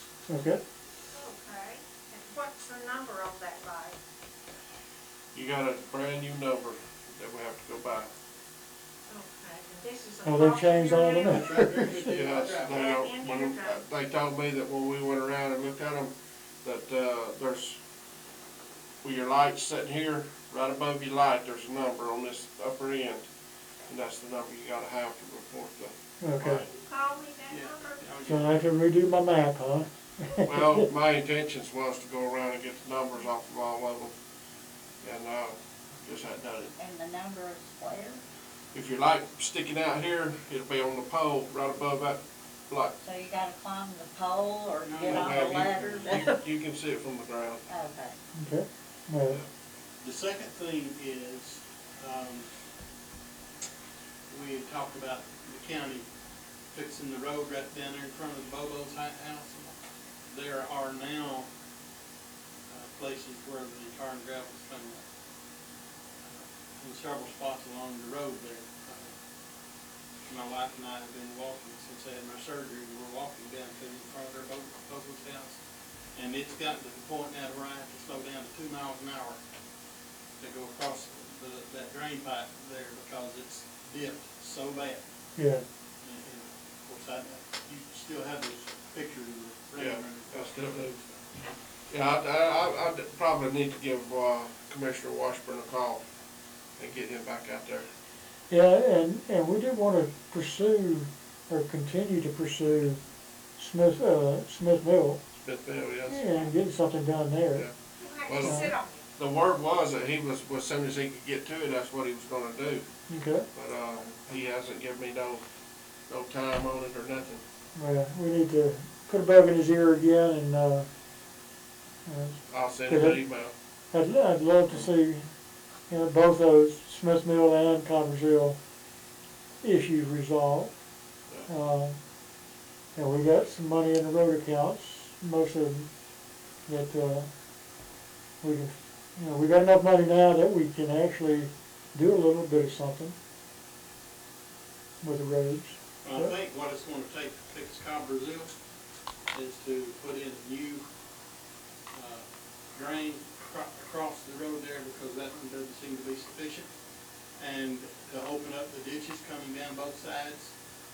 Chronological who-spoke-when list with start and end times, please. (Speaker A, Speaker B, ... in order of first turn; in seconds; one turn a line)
Speaker A: 0.3-0.6
Speaker B: 1.1-4.0
Speaker C: 5.3-8.1
Speaker B: 9.1-11.6
Speaker A: 10.2-12.2
Speaker D: 11.3-12.9
Speaker C: 12.1-17.8
Speaker B: 12.7-13.8
Speaker C: 19.0-23.3
Speaker C: 23.9-26.7
Speaker A: 26.2-26.6
Speaker B: 26.8-28.1
Speaker D: 27.5-28.6
Speaker A: 28.2-30.9
Speaker C: 30.4-34.2
Speaker C: 35.0-36.7
Speaker E: 36.8-38.2
Speaker C: 38.7-43.0
Speaker E: 43.0-46.4
Speaker D: 44.8-46.2
Speaker C: 45.0-47.6
Speaker E: 47.7-48.2
Speaker A: 48.3-49.4
Speaker D: 50.0-52.5
Speaker D: 54.3-56.1
Speaker D: 56.7-59.8
Speaker D: 60.3-61.5
Speaker D: 62.7-65.0
Speaker D: 66.2-69.1
Speaker D: 70.3-75.6
Speaker D: 76.1-79.4
Speaker D: 80.4-85.0
Speaker A: 85.4-85.7
Speaker D: 86.0-91.2
Speaker C: 89.8-91.0
Speaker C: 91.9-96.0
Speaker C: 96.8-97.9
Speaker A: 98.5-103.0
Speaker A: 103.6-105.2
Speaker C: 105.4-106.4
Speaker A: 106.1-107.7
Speaker B: 108.0-109.0
Speaker C: 108.3-112.9
Speaker A: 108.4-108.7
Speaker A: 113.1-113.5
Speaker C: 113.5-115.4
Speaker C: 116.1-117.4
Speaker A: 117.8-120.9
Speaker A: 122.1-123.2
Speaker C: 122.5-123.5
Speaker A: 123.9-125.3
Speaker A: 125.9-128.6
Speaker A: 129.6-130.8
Speaker A: 131.5-132.0
Speaker A: 132.9-135.9
Speaker A: 136.7-137.3
Speaker A: 138.4-143.2
Speaker A: 145.0-146.3
Speaker D: 146.0-148.5
Speaker D: 149.3-150.8
Speaker D: 151.9-156.7
Speaker D: 157.4-160.6